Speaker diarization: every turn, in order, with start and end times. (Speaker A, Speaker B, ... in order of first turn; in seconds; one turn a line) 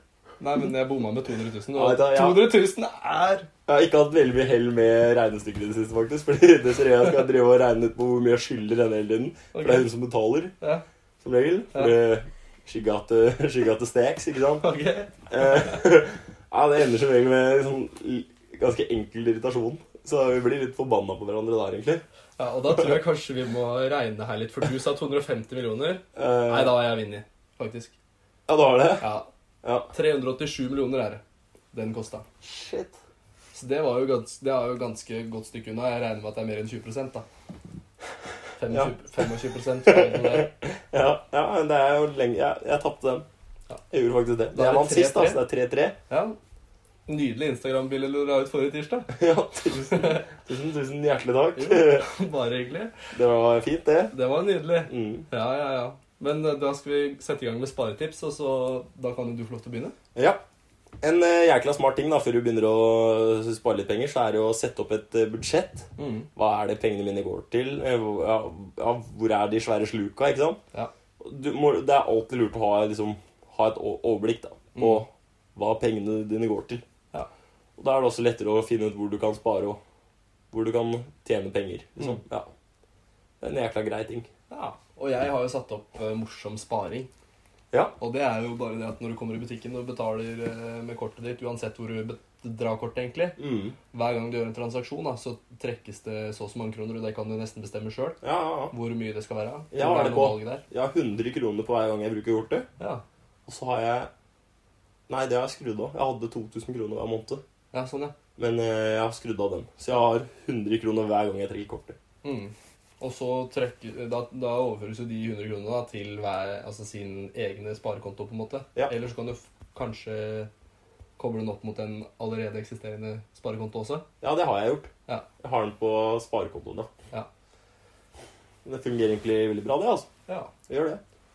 Speaker A: 0.4-3.5
Speaker B: 1.7-2.6
Speaker B: 3.6-10.5
Speaker A: 9.5-9.9
Speaker B: 11.2-14.6
Speaker A: 11.7-12.0
Speaker A: 14.6-15.1
Speaker B: 15.3-22.0
Speaker A: 22.4-27.9
Speaker B: 26.1-26.9
Speaker B: 28.5-29.1
Speaker A: 29.0-29.3
Speaker B: 29.6-29.9
Speaker A: 29.9-32.2
Speaker B: 32.4-33.0
Speaker A: 33.5-37.2
Speaker A: 38.6-40.5
Speaker B: 39.9-43.2
Speaker B: 43.9-46.0
Speaker A: 44.5-45.4
Speaker A: 46.1-46.4
Speaker A: 47.0-49.1
Speaker B: 49.1-52.1
Speaker A: 49.9-50.2
Speaker A: 51.5-52.9
Speaker B: 53.1-54.1
Speaker A: 54.1-59.9
Speaker B: 54.9-55.2
Speaker B: 60.1-60.4
Speaker B: 61.0-70.6
Speaker A: 66.0-66.3
Speaker B: 71.2-76.8
Speaker A: 74.7-75.0
Speaker B: 77.8-79.8
Speaker B: 80.5-82.5
Speaker B: 83.4-84.3
Speaker A: 84.5-87.1
Speaker A: 88.0-93.4
Speaker B: 93.4-93.7
Speaker A: 93.9-98.2
Speaker B: 98.2-98.7
Speaker A: 98.7-100.6
Speaker B: 99.7-102.7
Speaker B: 103.5-104.1
Speaker B: 105.1-107.4
Speaker A: 107.7-108.1
Speaker B: 108.3-112.0
Speaker A: 112.2-120.5
Speaker A: 121.2-124.0
Speaker B: 124.2-126.9
Speaker B: 128.6-130.1
Speaker A: 130.3-130.5
Speaker B: 130.7-131.0